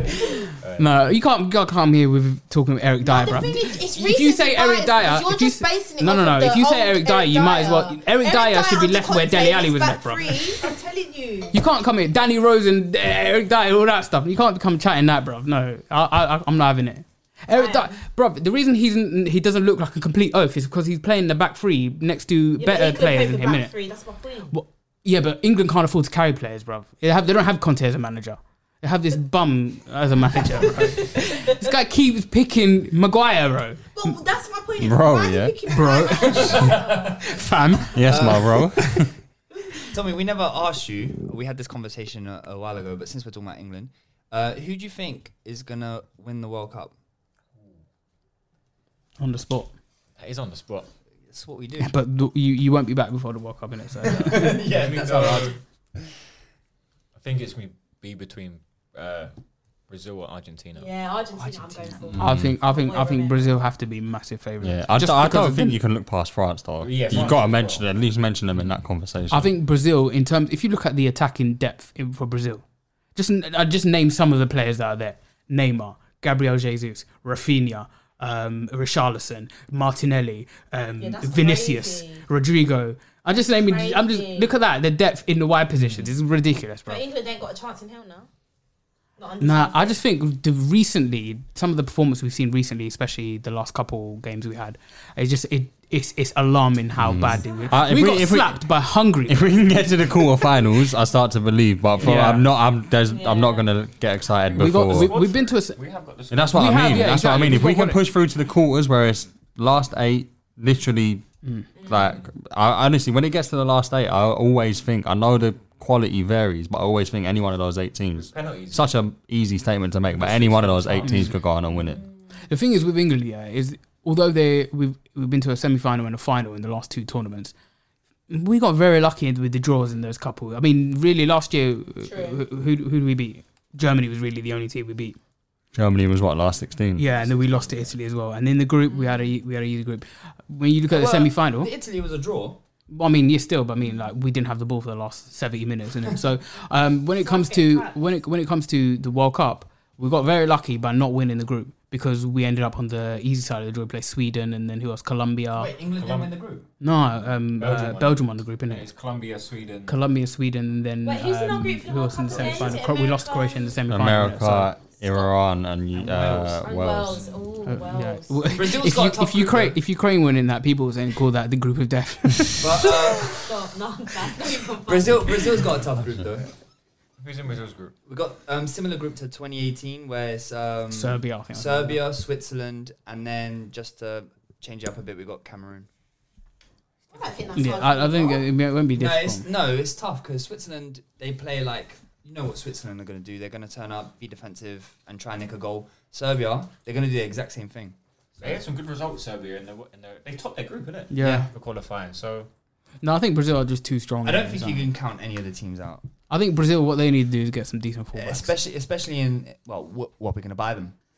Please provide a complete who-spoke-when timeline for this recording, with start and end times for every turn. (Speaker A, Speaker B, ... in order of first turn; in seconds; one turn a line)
Speaker A: 0.8-10.4
Speaker B: 3.0-11.6
Speaker A: 11.5-23.7
Speaker B: 17.5-18.0
Speaker B: 22.6-24.6
Speaker A: 24.5-34.1
Speaker B: 30.7-31.6
Speaker B: 34.0-37.4
Speaker C: 34.8-35.8
Speaker A: 35.7-38.3
Speaker D: 36.3-36.8
Speaker E: 36.5-36.9
Speaker C: 37.9-39.1
Speaker D: 38.0-39.0
Speaker D: 39.9-46.9
Speaker A: 49.2-49.7
Speaker E: 50.2-50.9
Speaker D: 51.3-51.9
Speaker A: 51.8-54.5
Speaker D: 54.0-55.6
Speaker E: 54.3-55.6
Speaker E: 57.1-59.3
Speaker E: 59.9-62.1
Speaker B: 60.7-63.6
Speaker A: 62.1-65.8
Speaker C: 62.2-62.6
Speaker C: 64.6-69.5
Speaker E: 66.8-67.9
Speaker A: 69.3-72.6
Speaker A: 73.2-87.0
Speaker B: 81.0-82.3
Speaker B: 83.5-84.5
Speaker B: 86.9-88.3
Speaker B: 89.2-90.0
Speaker A: 89.4-99.5
Speaker C: 97.0-98.7
Speaker C: 99.3-105.2
Speaker E: 102.0-102.3
Speaker A: 102.0-102.5
Speaker B: 103.0-103.7
Speaker A: 104.6-105.8
Speaker E: 104.8-107.5
Speaker C: 106.3-111.2
Speaker A: 106.5-108.0
Speaker C: 111.8-122.0
Speaker E: 111.9-112.2
Speaker E: 118.2-119.0
Speaker E: 120.1-121.4
Speaker A: 121.0-121.3
Speaker A: 122.5-127.5
Speaker A: 128.3-135.2
Speaker B: 132.0-132.4
Speaker C: 135.8-137.1
Speaker A: 137.0-141.7
Speaker E: 137.2-137.9
Speaker B: 138.9-139.3
Speaker D: 140.9-142.6
Speaker A: 142.9-155.7
Speaker B: 147.1-148.0
Speaker D: 155.5-156.7
Speaker E: 156.0-156.3
Speaker A: 156.8-158.9
Speaker E: 157.3-159.9
Speaker A: 159.9-164.8
Speaker B: 161.0-163.8
Speaker E: 162.3-162.8
Speaker C: 163.9-167.2
Speaker D: 165.9-166.7
Speaker B: 166.6-168.5
Speaker A: 167.7-172.9
Speaker D: 168.5-169.8
Speaker D: 172.6-173.5
Speaker B: 172.7-175.6
Speaker D: 174.9-176.5
Speaker E: 177.2-177.9
Speaker D: 178.1-185.9
Speaker A: 180.9-182.0
Speaker B: 187.1-188.5
Speaker A: 187.6-189.4
Speaker D: 188.9-198.6
Speaker E: 198.4-202.5
Speaker A: 201.1-201.5
Speaker A: 203.0-204.9
Speaker D: 204.2-206.0
Speaker A: 206.3-208.5
Speaker D: 208.2-210.9